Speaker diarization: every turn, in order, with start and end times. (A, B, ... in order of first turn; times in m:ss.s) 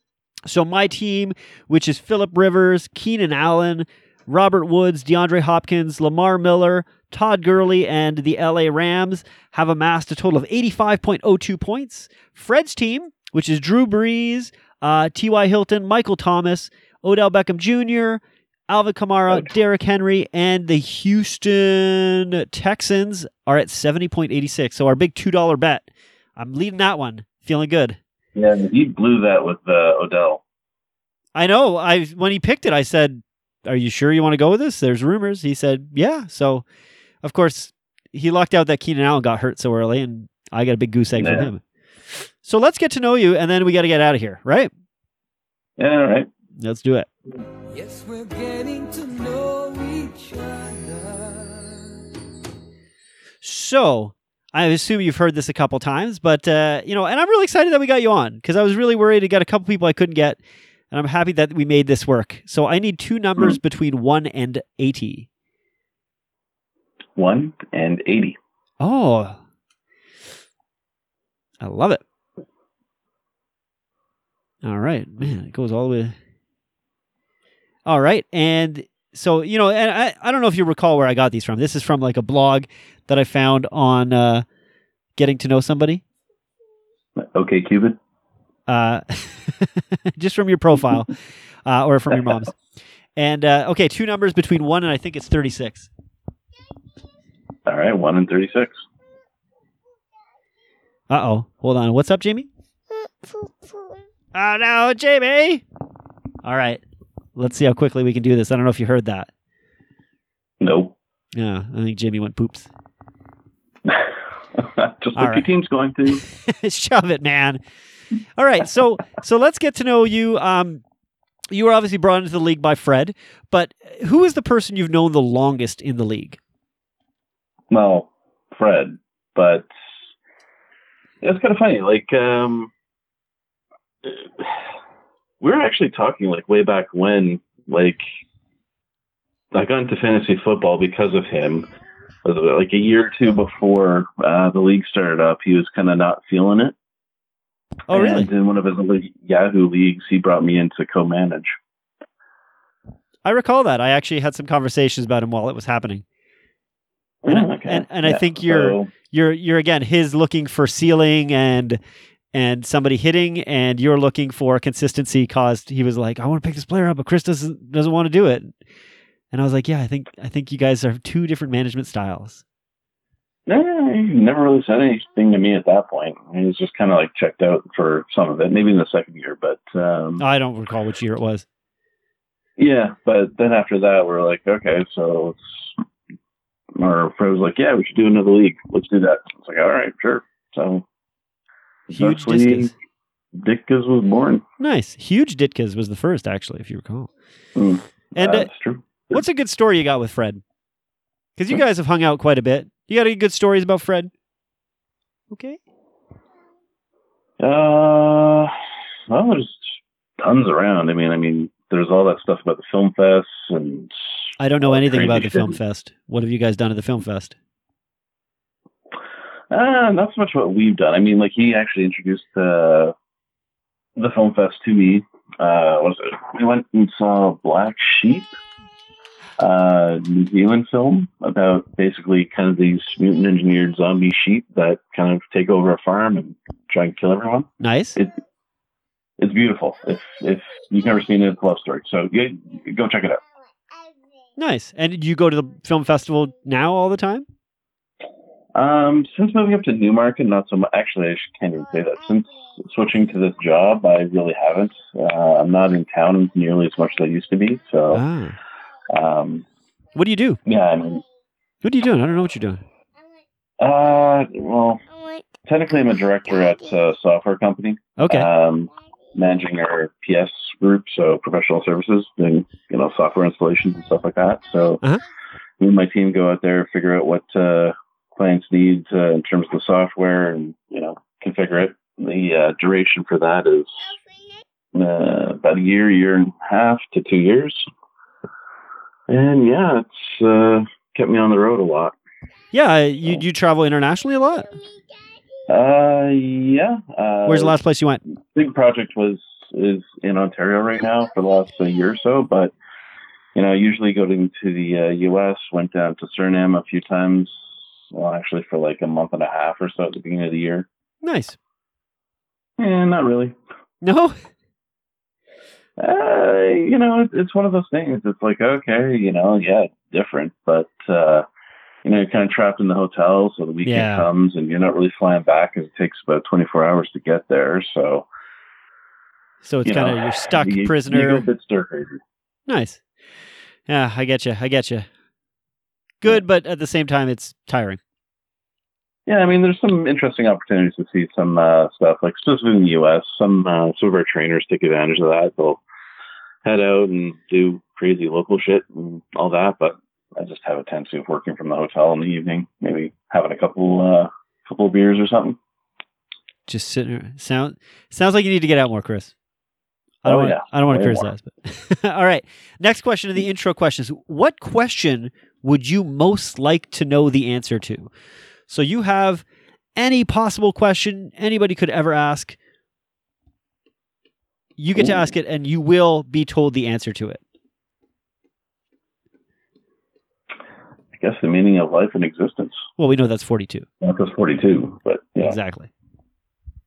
0:00.5-0:28.0 A
0:28.3-0:30.4 B
0:31.3-0:36.6 A
0:37.2-0:41.6 A
0:41.1-0:41.5 B
0:42.4-0:44.7 A
0:45.8-0:46.3 B
0:46.6-0:47.1 A
0:47.7-0:51.9 C
0:53.4-1:00.4 A
1:00.9-1:05.3 A
1:07.2-1:08.4 B
1:08.8-1:09.4 A
1:11.6-1:12.0 A
1:14.6-1:16.1 A
1:17.8-1:24.4 A
1:25.2-1:26.0 A
1:27.2-1:28.0 B
1:28.7-1:31.1 A
1:31.6-1:32.5 A
1:33.2-1:35.9 A
1:37.6-1:38.8 B
1:41.1-1:42.5 A
1:44.3-1:45.6 A
1:46.4-1:46.8 A
1:47.4-1:49.3 A
1:50.6-1:50.9 B
1:51.3-1:52.7 A
1:53.8-1:56.2 B
1:55.2-1:55.5 A
1:56.3-1:57.6 A
1:58.4-2:00.8 A
2:01.5-2:06.4 A
2:07.7-2:09.7 B
2:11.2-2:12.7 B
2:14.0-2:14.6 B
2:15.4-2:18.0 B
2:19.5-2:21.7 B
2:22.2-2:26.8 B
2:27.9-2:28.3 A
2:27.9-2:31.6 B
2:33.2-2:36.0 A
2:37.2-2:38.9 B
2:37.3-2:41.8 A
2:42.3-2:48.5 A
2:49.3-2:52.4 A
2:53.5-3:00.2 B
3:00.2-3:01.4 A
3:02.6-3:05.8 B
3:06.8-3:10.8 B
3:11.9-3:12.7 B
3:11.9-3:12.7 A
3:13.3-3:14.4 B
3:14.6-3:17.1 A
3:17.6-3:19.2 B
3:18.1-3:18.5 A
3:19.1-3:20.4 A
3:21.4-3:24.1 A
3:25.3-3:25.6 A
3:27.4-3:28.5 B
3:29.1-3:33.9 B
3:34.4-3:37.3 A
3:34.6-3:35.6 B
3:39.5-3:42.9 B
3:44.0-3:48.3 B
3:49.4-3:58.2 B
3:57.6-3:58.0 A
3:59.2-4:03.2 B
4:04.4-4:07.2 A
4:08.5-4:18.0 B
4:17.9-4:18.4 A
4:18.9-4:19.4 B
4:19.9-4:20.4 A
4:20.4-4:21.0 B
4:21.6-4:22.6 A
4:23.6-4:24.8 B
4:25.4-4:34.8 B
4:28.0-4:28.3 A
4:35.6-4:44.0 B
4:44.7-4:47.6 B
4:49.1-4:52.0 B
4:52.5-4:54.5 A
4:55.5-4:57.5 B
4:57.2-4:58.0 A
4:58.3-5:02.5 B
5:03.3-5:10.7 B
5:11.0-5:11.4 A
5:12.6-5:13.4 B
5:13.8-5:14.2 A
5:15.8-5:21.2 B
5:21.8-5:28.1 B
5:23.6-5:24.1 A
5:29.4-5:31.2 A
5:29.6-5:32.0 B
5:32.5-5:32.8 A
5:33.7-5:34.9 A
5:36.0-5:37.8 A
5:39.1-5:45.6 B
5:46.4-5:55.4 B
5:56.5-5:59.1 A
6:00.0-6:07.9 A
6:00.0-6:01.1 B
6:08.5-6:09.2 A
6:09.8-6:12.4 A
6:14.6-6:17.2 A
6:14.7-6:15.0 B
6:21.0-6:22.6 B
6:22.8-6:23.7 A
6:23.8-6:25.4 B
6:25.2-6:25.7 A